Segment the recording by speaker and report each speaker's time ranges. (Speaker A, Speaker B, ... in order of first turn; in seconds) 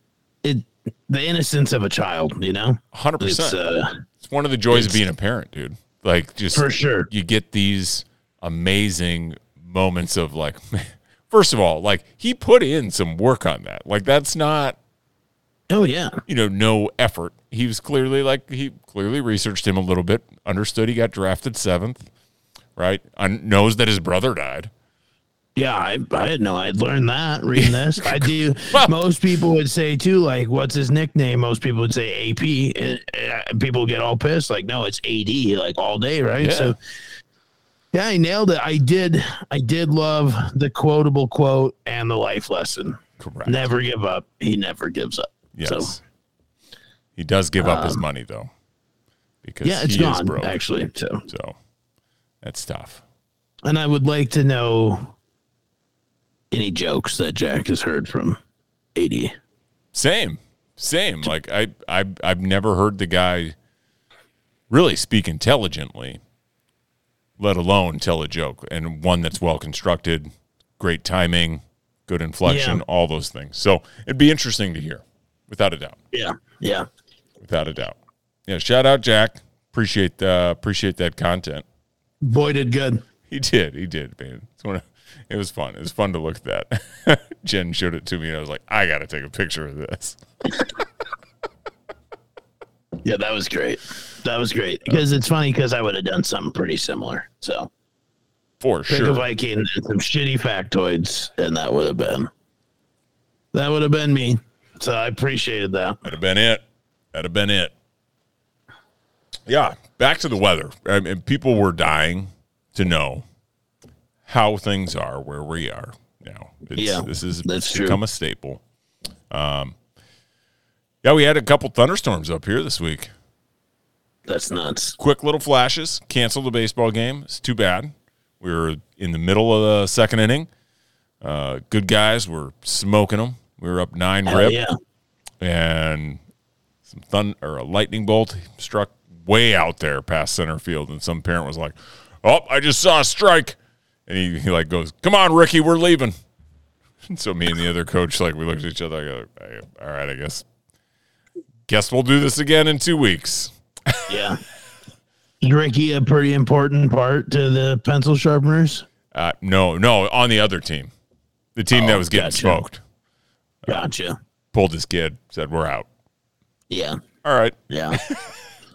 Speaker A: 0.4-4.0, 4.7-5.0, 6.5-7.1, 15.7-16.2, 25.6-36.8, 37.9-45.9, 47.6-48.0, 49.6-51.3, 53.6-55.1, 56.5-58.4, 59.0-59.3, 72.4-72.8, 76.1-76.9, 82.2-83.0, 93.0-97.7, 98.9-102.3, 103.5-106.0, 116.8-118.0, 124.3-125.0, 134.3-134.7, 154.1-154.4, 155.4-158.8, 161.7-162.6, 163.7-164.2, 166.7-167.0, 167.7-168.0
Speaker B: 2.9-3.6, 4.2-14.8, 16.3-22.1, 22.8-24.7, 27.6-28.9, 36.4-36.7, 43.2-43.7, 45.5-46.0, 47.1-48.5, 49.4-50.6, 51.3-51.5, 52.4-53.0, 59.9-63.5, 64.7-66.2, 67.4-76.0, 77.4-78.0, 78.5-81.6, 83.3-90.2, 98.6-99.2, 106.0-107.7, 109.5-113.2, 114.2-118.6, 119.3-119.8, 121.0-123.1, 125.0-130.5, 131.2-134.6, 135.4-136.2, 136.8-146.1, 147.1-150.4, 151.7-154.2, 159.1-160.9, 161.6-162.8, 164.5-165.9, 167.2-168.3